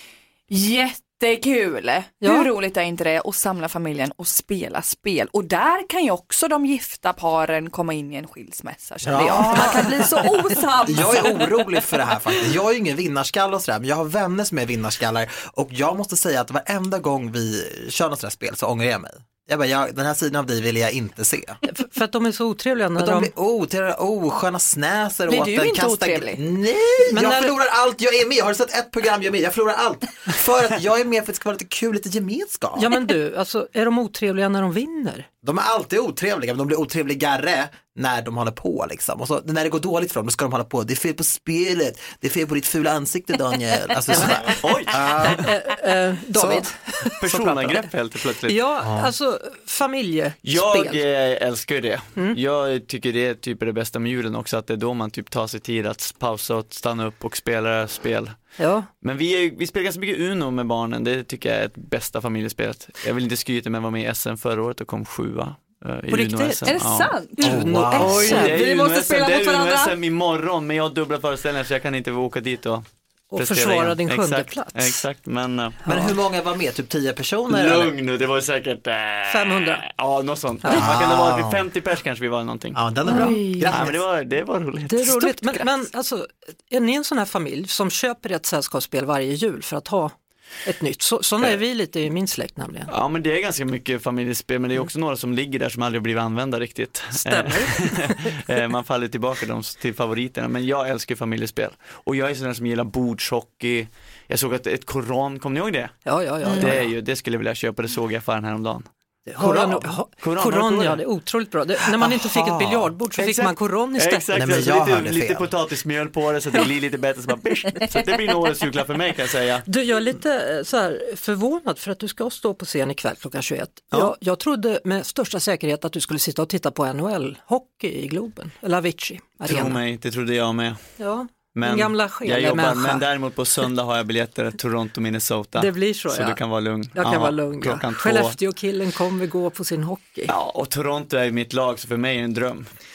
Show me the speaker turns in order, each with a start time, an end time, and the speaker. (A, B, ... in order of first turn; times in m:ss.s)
0:00.5-0:12.0 A
0:09.0-0:10.0 B
0:10.8-0:21.6 B
0:21.6-0:23.3 C
0:23.0-0:32.9 B
0:25.3-0:26.4 A
0:27.1-0:27.5 C
0:32.8-0:35.3 C
0:35.4-0:45.4 B
0:44.5-0:45.4 D
0:45.4-0:47.9 C
0:47.2-0:48.6 D
0:48.5-0:51.0 C
0:48.8-0:49.1 B
0:50.4-0:58.3 D
0:58.6-0:58.9 C
0:59.0-1:07.1 D
1:06.1-1:06.8 C
1:06.7-1:07.6 A
1:07.4-1:08.6 C
1:07.4-1:08.4 B
1:07.9-1:15.8 D
1:08.2-1:09.9 A
1:13.3-1:15.0 C
1:15.8-1:16.1 C
1:15.8-1:17.9 B
1:17.5-1:22.8 D
1:19.3-1:19.8 C
1:20.7-1:21.6 B
1:22.7-1:24.0 B
1:23.0-1:23.8 C
1:23.7-1:25.4 D
1:24.9-1:30.1 C
1:30.6-1:32.9 C
1:32.9-1:46.0 D
1:37.1-1:38.5 C
1:46.0-1:46.9 C
1:46.4-1:46.8 A
1:46.5-1:48.9 D
1:49.2-1:54.2 C
1:49.4-1:51.0 D
1:52.0-1:52.9 B
1:53.2-1:59.7 D
1:54.3-1:55.5 B
1:59.7-2:09.8 C
2:09.4-2:10.8 D
2:11.0-2:13.0 C
2:11.5-2:18.4 D
2:15.6-2:16.4 C
2:16.9-2:20.3 C
2:20.3-2:22.6 D